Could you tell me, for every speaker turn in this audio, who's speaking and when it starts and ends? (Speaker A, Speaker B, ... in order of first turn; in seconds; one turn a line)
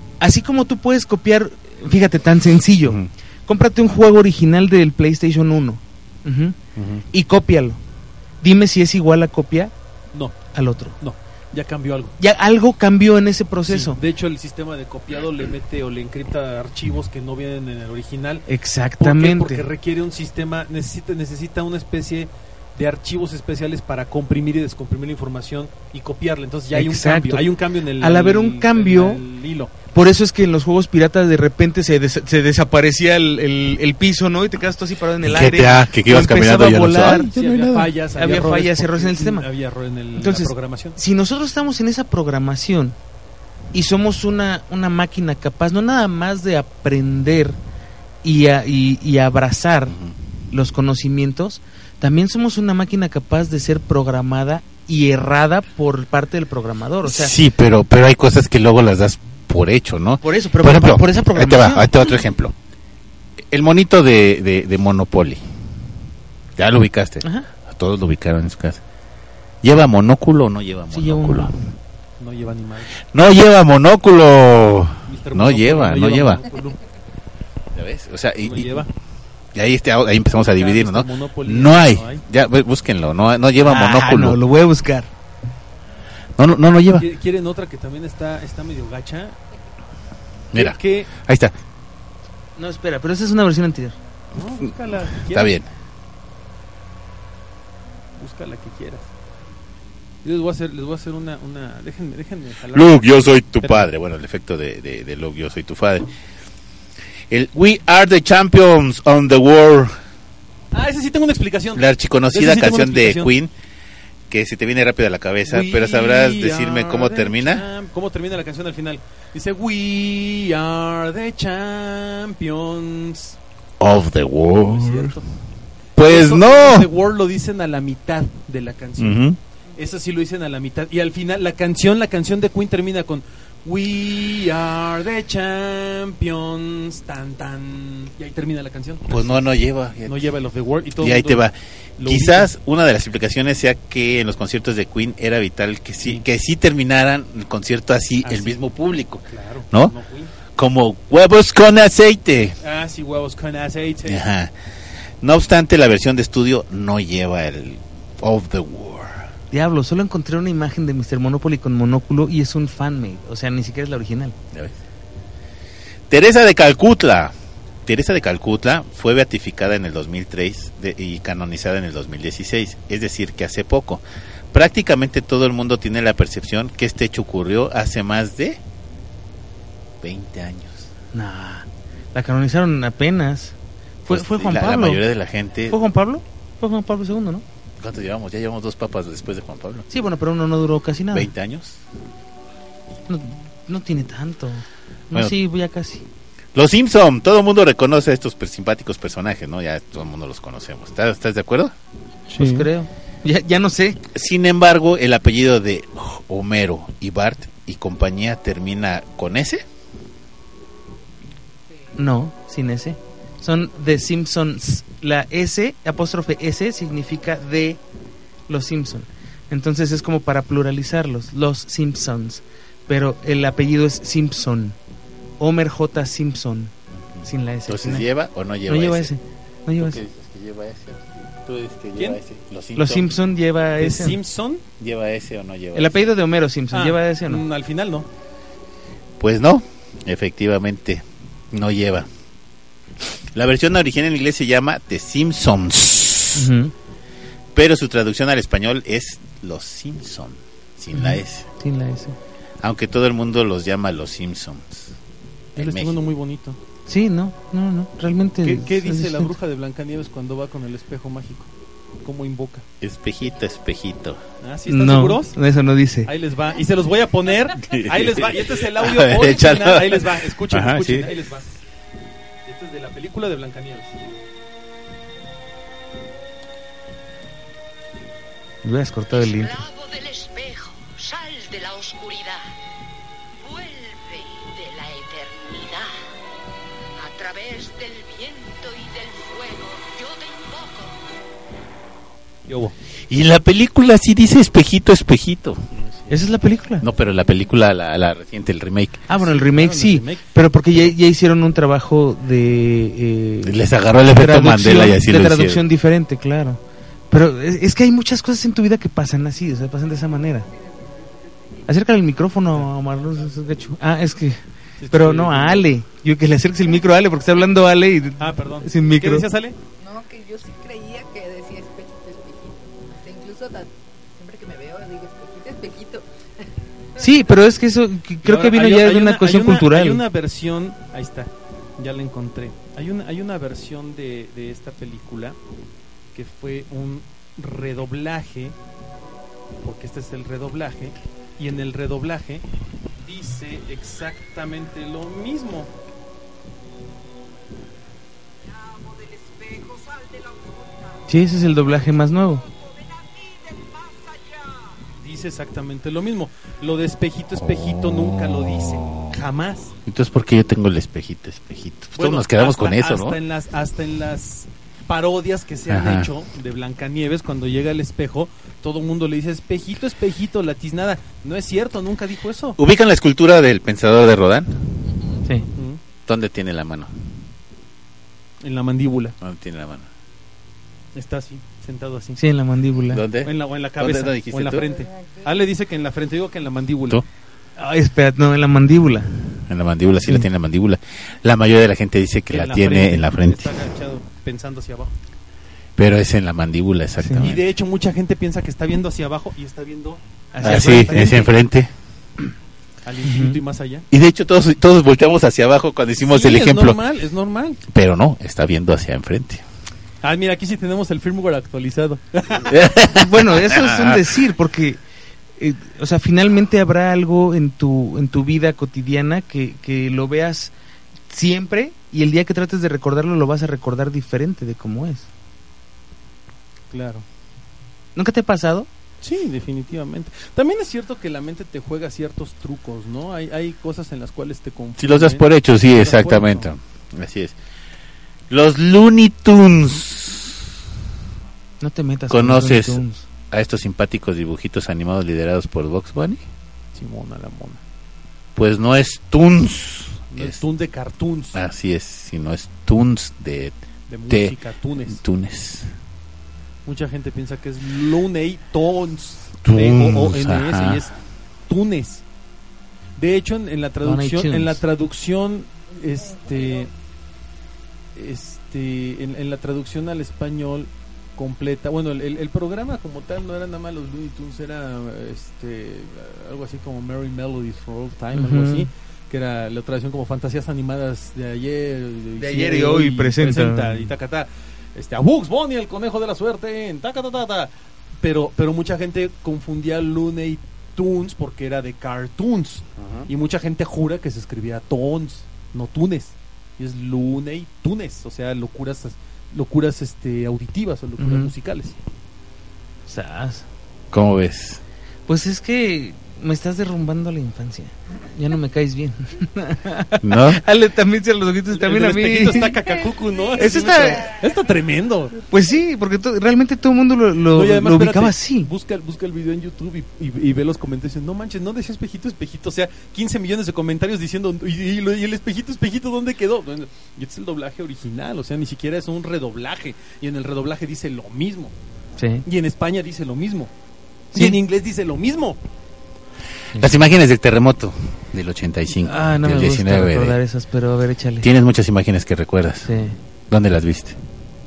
Speaker A: 0.2-6.6
Speaker B: 6.8-7.0
Speaker A: 7.1-7.8
Speaker A: 8.4-9.7
Speaker A: 10.5-11.0
Speaker C: 11.0-12.2
Speaker A: 12.2-14.0
Speaker C: 13.7-18.5
Speaker A: 18.5-19.7
Speaker C: 19.0-29.7
Speaker A: 26.7-27.5
Speaker A: 28.0-29.2
Speaker A: 29.9-37.3
Speaker B: 35.2-37.9
Speaker C: 37.2-41.0
Speaker A: 38.1-39.5
Speaker A: 40.2-43.0
Speaker A: 43.7-47.6
Speaker A: 48.2-50.0
Speaker A: 50.5-57.3
Speaker B: 57.0-62.5
Speaker A: 60.2-61.9
Speaker B: 63.5-65.4
Speaker B: 66.6-68.8
Speaker A: 67.2-67.5
Speaker B: 69.6-71.5
Speaker A: 70.9-71.6
Speaker C: 72.2-73.0
Speaker B: 73.1-76.5
Speaker C: 75.1-76.8
Speaker B: 77.8-78.8
Speaker C: 78.4-78.9
Speaker B: 79.5-84.4
Speaker C: 80.3-82.2
Speaker A: 83.6-85.1
Speaker B: 86.4-87.1
Speaker C: 86.9-89.4
Speaker B: 90.5-91.5
Speaker C: 90.5-91.1
Speaker A: 92.6-94.0
Speaker C: 94.3-95.6
Speaker B: 95.2-95.7
Speaker C: 98.2-99.1
Speaker C: 100.2-103.9
Speaker B: 102.7-106.1
Speaker B: 107.3-109.9
Speaker C: 110.7-113.3
Speaker B: 111.8-113.5
Speaker B: 114.3-117.7
Speaker C: 115.5-123.4
Speaker B: 123.8-125.2
Speaker C: 124.7-125.3
Speaker B: 126.0-126.9
Speaker C: 126.0-139.5
Speaker B: 129.0-129.4
Speaker B: 139.1-140.2
Speaker C: 140.1-141.5
Speaker B: 141.0-149.9
Speaker C: 142.0-142.5
Speaker C: 148.2-148.6
Speaker C: 149.3-150.3
Speaker B: 150.6-152.6
Speaker C: 152.6-154.3
Speaker B: 154.1-154.5
Speaker B: 155.2-159.3
Speaker A: 159.5-164.3
Speaker B: 166.1-167.3
Speaker B: 167.9-178.6
Speaker B: 180.0-180.9
Speaker A: 181.1-185.0
Speaker B: 184.1-185.8
Speaker A: 185.7-187.4
Speaker B: 187.8-189.9
Speaker A: 189.9-191.3
Speaker B: 191.1-191.8
Speaker A: 193.1-196.1
Speaker B: 196.6-201.7
Speaker A: 202.3-204.0
Speaker C: 202.3-202.7
Speaker B: 204.1-209.7
Speaker A: 212.0-217.8
Speaker A: 218.5-224.8
Speaker A: 225.4-226.7
Speaker B: 227.2-229.1
Speaker A: 227.2-228.1
Speaker A: 228.7-230.0
Speaker B: 229.8-233.1
Speaker C: 231.9-232.2
Speaker A: 232.8-234.2
Speaker C: 233.8-234.6
Speaker B: 234.8-236.0
Speaker A: 235.7-237.4
Speaker C: 236.7-238.1
Speaker B: 239.2-242.1
Speaker B: 243.1-246.5
Speaker A: 246.3-246.7
Speaker B: 247.6-251.5
Speaker A: 250.9-252.2
Speaker B: 252.6-254.9
Speaker C: 255.6-256.6
Speaker B: 255.6-256.0
Speaker A: 256.9-259.3
Speaker C: 258.4-261.5
Speaker C: 262.0-262.6
Speaker B: 262.8-264.2
Speaker C: 264.4-265.4
Speaker A: 264.7-266.1
Speaker C: 266.1-271.6
Speaker B: 267.6-271.1
Speaker C: 272.4-274.1
Speaker A: 278.6-279.6
Speaker D: 279.1-282.4
Speaker D: 283.4-285.9
Speaker D: 287.0-291.0
Speaker C: 292.5-292.8
Speaker B: 293.1-295.6
Speaker C: 295.8-296.1
Speaker A: 296.1-296.8
Speaker B: 296.8-299.0
Speaker C: 299.1-300.2
Speaker A: 299.1-303.6
Speaker B: 303.4-305.6
Speaker A: 304.1-310.5
Speaker E: 310.5-311.6
Speaker A: 311.7-319.3
Speaker C: 314.8-315.7
Speaker C: 318.2-319.6
Speaker E: 319.8-326.5
Speaker A: 327.0-330.0
Speaker C: 328.2-335.4
Speaker C: 336.1-338.6
Speaker C: 339.6-342.4
Speaker C: 343.0-345.7
Speaker E: 349.4-350.1
Speaker A: 351.1-352.5
Speaker D: 353.5-353.8
Speaker C: 355.0-359.8
Speaker B: 357.4-359.2
Speaker B: 359.8-363.2
Speaker C: 362.0-372.6
Speaker B: 365.7-366.1
Speaker B: 372.6-374.7
Speaker C: 375.6-375.8
Speaker B: 376.1-376.9
Speaker C: 378.4-379.1
Speaker B: 379.2-379.9
Speaker C: 380.9-382.2
Speaker A: 382.2-383.0
Speaker B: 382.9-384.7
Speaker C: 383.2-387.1
Speaker E: 384.6-385.3
Speaker A: 387.6-389.1
Speaker B: 389.5-393.6
Speaker C: 392.3-394.9
Speaker B: 395.8-397.4
Speaker A: 397.0-397.3
Speaker C: 397.2-401.4
Speaker A: 400.3-401.3
Speaker B: 400.4-401.7
Speaker C: 402.9-403.9
Speaker A: 403.1-403.4
Speaker B: 403.9-406.8
Speaker C: 406.0-407.6
Speaker B: 407.7-409.4
Speaker C: 410.0-412.6
Speaker B: 412.5-414.1
Speaker A: 412.9-414.8
Speaker A: 415.4-420.5
Speaker A: 421.1-425.1
Speaker C: 426.7-427.1
Speaker A: 428.0-428.7
Speaker C: 429.0-436.5
Speaker B: 434.8-437.4
Speaker B: 438.3-440.5
Speaker A: 441.6-443.0
Speaker B: 442.1-446.2
Speaker C: 446.8-447.6
Speaker B: 448.4-450.4
Speaker C: 450.1-451.4
Speaker B: 451.3-453.6
Speaker C: 453.9-455.0
Speaker B: 454.1-454.4
Speaker B: 454.9-455.7
Speaker C: 456.7-462.0
Speaker B: 459.4-460.9
Speaker C: 463.0-466.7
Speaker A: 463.8-464.6
Speaker C: 467.9-501.8
Speaker A: 478.1-478.7
Speaker A: 482.2-483.9
Speaker B: 492.8-493.1
Speaker A: 501.0-501.3
Speaker A: 502.9-503.5
Speaker B: 503.9-504.6
Speaker A: 505.1-512.5
Speaker B: 510.0-510.4
Speaker C: 511.5-515.2
Speaker E: 512.8-514.1
Speaker A: 513.4-514.1
Speaker A: 515.3-518.5
Speaker C: 517.3-531.5
Speaker A: 532.0-532.2
Speaker C: 532.2-533.5
Speaker C: 534.1-535.4
Speaker B: 536.6-540.2
Speaker A: 538.8-541.3
Speaker B: 541.2-542.7
Speaker A: 542.6-543.0
Speaker B: 543.3-544.0